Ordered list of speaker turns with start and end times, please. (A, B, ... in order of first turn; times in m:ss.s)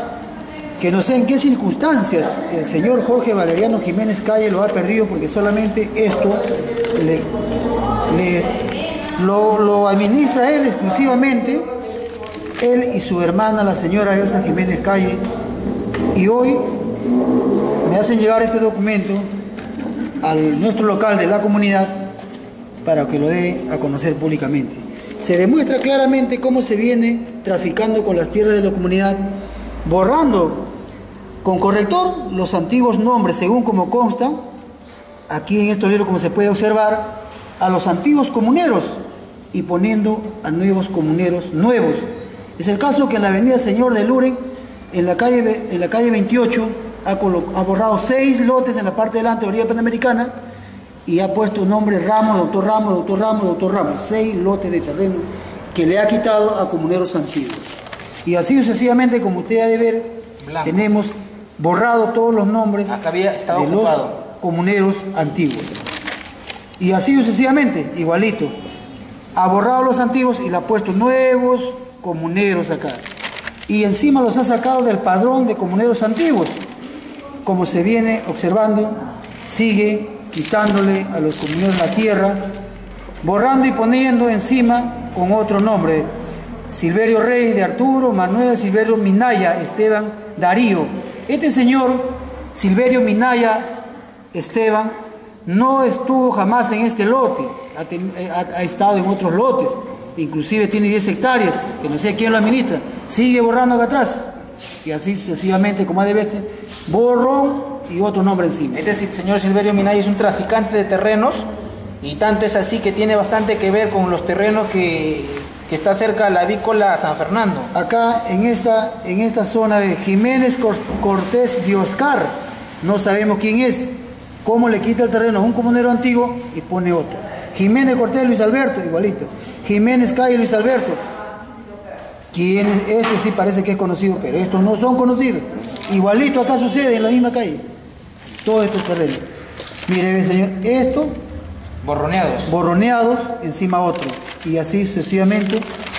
0:00.8-0:06.4 A
0:06.9-0:07.3 A
0:08.1-0:08.5 A
0:09.2-0:11.6 A
0:12.6-0:15.2 A
0:16.1-0:16.8 A
0:17.8-0:19.3 A
0:20.2-0:22.1 A
0:22.8-0:30.7 A
0:31.4-0:34.4 A
0:35.3-0:39.0 A
0:39.5-0:42.0 A
0:42.6-0:50.3 A
0:51.0-0:57.6 A
0:58.2-1:03.0 A
1:00.4-1:00.7 B
1:02.9-1:04.1 B
1:03.5-1:05.7 A
1:06.8-1:08.6 A
1:09.3-1:13.0 A
1:13.7-1:16.6 A
1:17.4-1:22.5 A
1:23.2-1:26.1 A
1:26.7-1:33.7 A
1:34.3-1:34.9 A
1:35.4-1:44.3 A
1:44.8-1:48.8 A
1:48.7-1:51.5 B
1:52.0-1:57.7 B
1:57.7-2:11.0 A
2:12.3-2:17.6 A
2:18.4-2:19.2 A
2:19.9-2:21.1 A
2:21.8-2:22.5 B
2:22.4-2:25.6 A